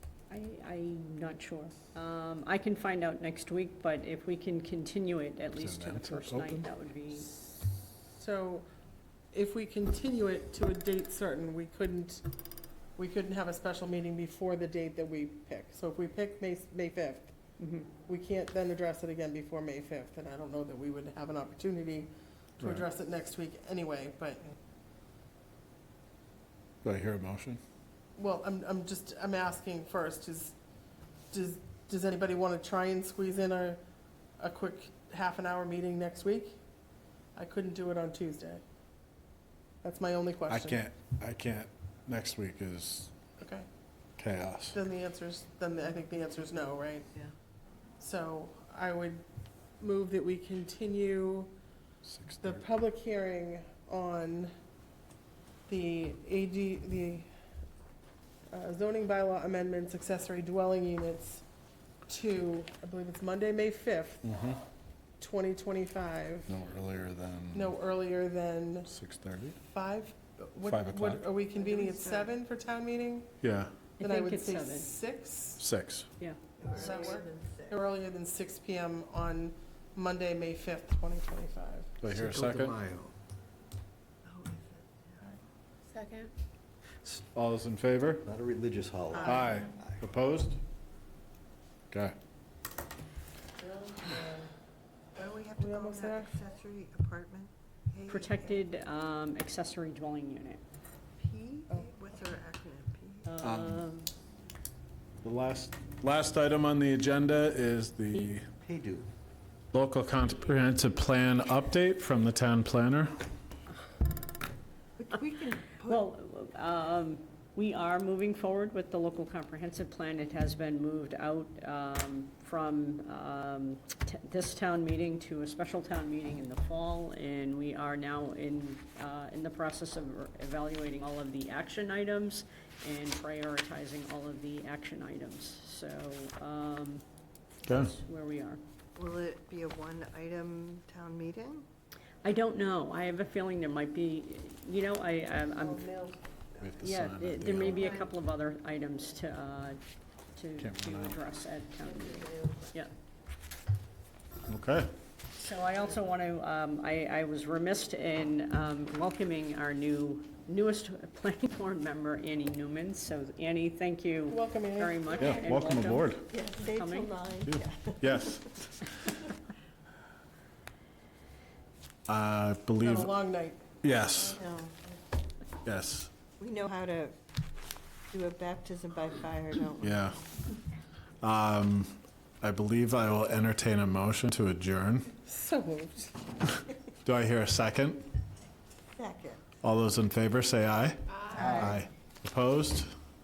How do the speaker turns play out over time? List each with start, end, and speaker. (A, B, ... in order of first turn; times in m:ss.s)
0:00.3-0:07.4 A
0:05.6-0:06.7 B
0:08.2-0:08.7 C
0:09.3-0:12.2 C
0:13.0-0:17.3 C
0:17.6-0:17.9 A
0:18.0-0:24.5 C
0:26.8-0:27.6 B
0:28.2-0:30.6 C
0:31.3-0:33.8 C
0:34.4-0:36.6 C
0:37.4-0:38.6 C
0:39.8-0:40.8 C
0:40.5-0:43.1 B
0:43.4-0:43.7 C
0:44.2-0:44.8 B
0:44.7-0:47.1 C
0:48.0-0:49.2 C
0:49.8-0:51.5 C
0:52.0-0:52.6 B
0:52.4-0:54.5 C
0:55.7-0:57.3 C
0:58.5-1:01.4 C
1:02.0-1:04.2 C
1:04.2-1:04.6 B
1:05.2-1:06.5 C
1:06.5-1:07.7 B
1:07.5-1:08.9 C
1:08.9-1:09.6 B
1:09.6-1:13.3 C
1:10.6-1:11.2 B
1:11.5-1:12.3 D
1:13.4-1:13.7 B
1:14.0-1:14.9 A
1:14.0-1:15.6 C
1:15.6-1:16.1 B
1:16.2-1:17.1 A
1:16.6-1:17.8 D
1:16.7-1:22.0 C
1:22.0-1:22.8 B
1:22.1-1:23.1 E
1:24.2-1:25.4 D
1:25.9-1:26.3 D
1:27.2-1:28.3 B
1:28.2-1:30.0 E
1:29.1-1:29.7 D
1:29.2-1:30.6 B
1:31.9-1:32.1 B
1:33.6-1:34.4 D
1:35.2-1:38.6 D
1:35.6-1:36.3 C
1:38.1-1:40.6 A
1:41.2-1:43.4 D
1:43.2-1:44.1 A
1:43.4-1:43.8 B
1:45.2-1:48.5 B
1:48.6-1:49.1 E
1:49.7-1:53.2 B
1:55.0-1:56.0 D
1:55.8-2:17.0 A
2:17.6-2:18.6 A
2:17.7-2:17.9 B
2:19.0-2:21.7 D
2:22.2-2:25.9 A
2:25.5-2:26.2 D
2:26.6-2:28.0 B
2:26.8-2:29.8 A
2:27.6-2:28.1 D
2:30.3-2:32.9 A
2:30.6-2:31.2 B
2:31.8-2:32.8 D
2:34.5-2:34.9 B
2:35.3-2:47.1 A
2:44.3-2:45.5 C
2:45.2-2:46.2 B
2:46.3-2:48.5 D
2:47.4-2:48.9 B
2:52.1-2:53.1 B
2:52.8-2:53.7 C
2:53.8-2:54.4 B
2:54.3-2:54.9 D
2:55.6-2:56.1 B
2:56.4-2:57.2 D
2:58.1-3:00.0 D
2:59.8-3:00.2 B
3:01.2-3:05.1 B
3:05.2-3:06.3 C
3:07.0-3:08.0 B
3:08.9-3:09.4 D
3:09.6-3:12.9 B
3:11.1-3:11.8 C
3:11.4-3:11.8 E